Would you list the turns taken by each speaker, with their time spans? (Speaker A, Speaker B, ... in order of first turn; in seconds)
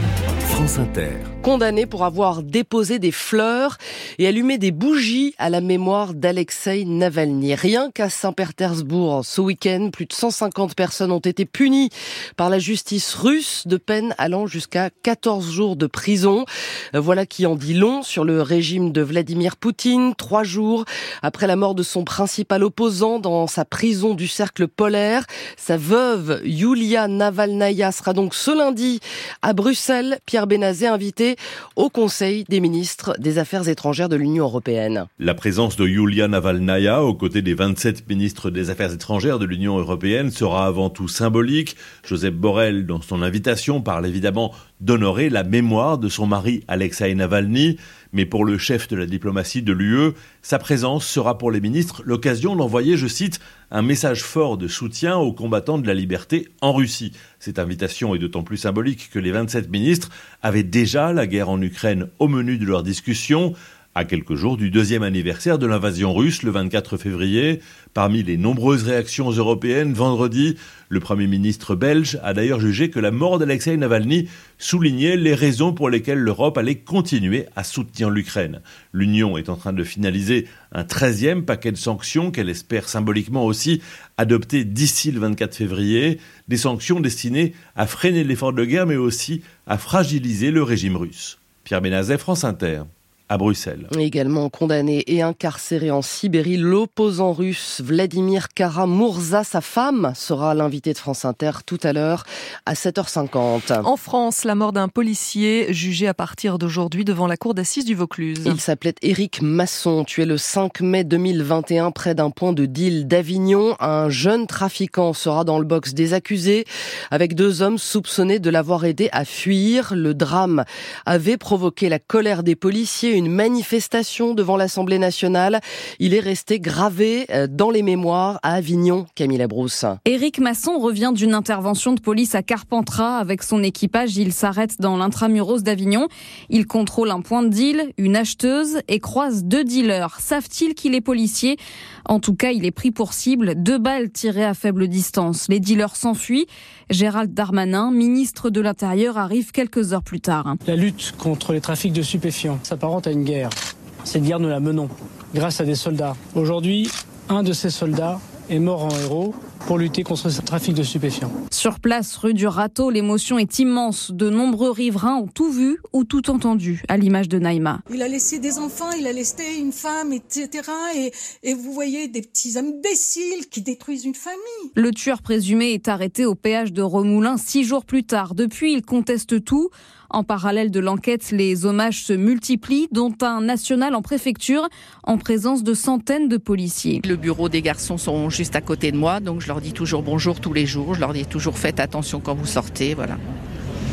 Speaker A: 0.5-1.1, 35.2-93.9
Speaker B: 1.4-35.1, 93.9-103.9, 108.4-130.0
Speaker C: 103.8-108.5
Speaker D: 130.1-150.6, 161.5-167.8, 174.8-187.0
Speaker E: 150.7-161.3
Speaker F: 167.9-174.7
Speaker G: 187.0-193.2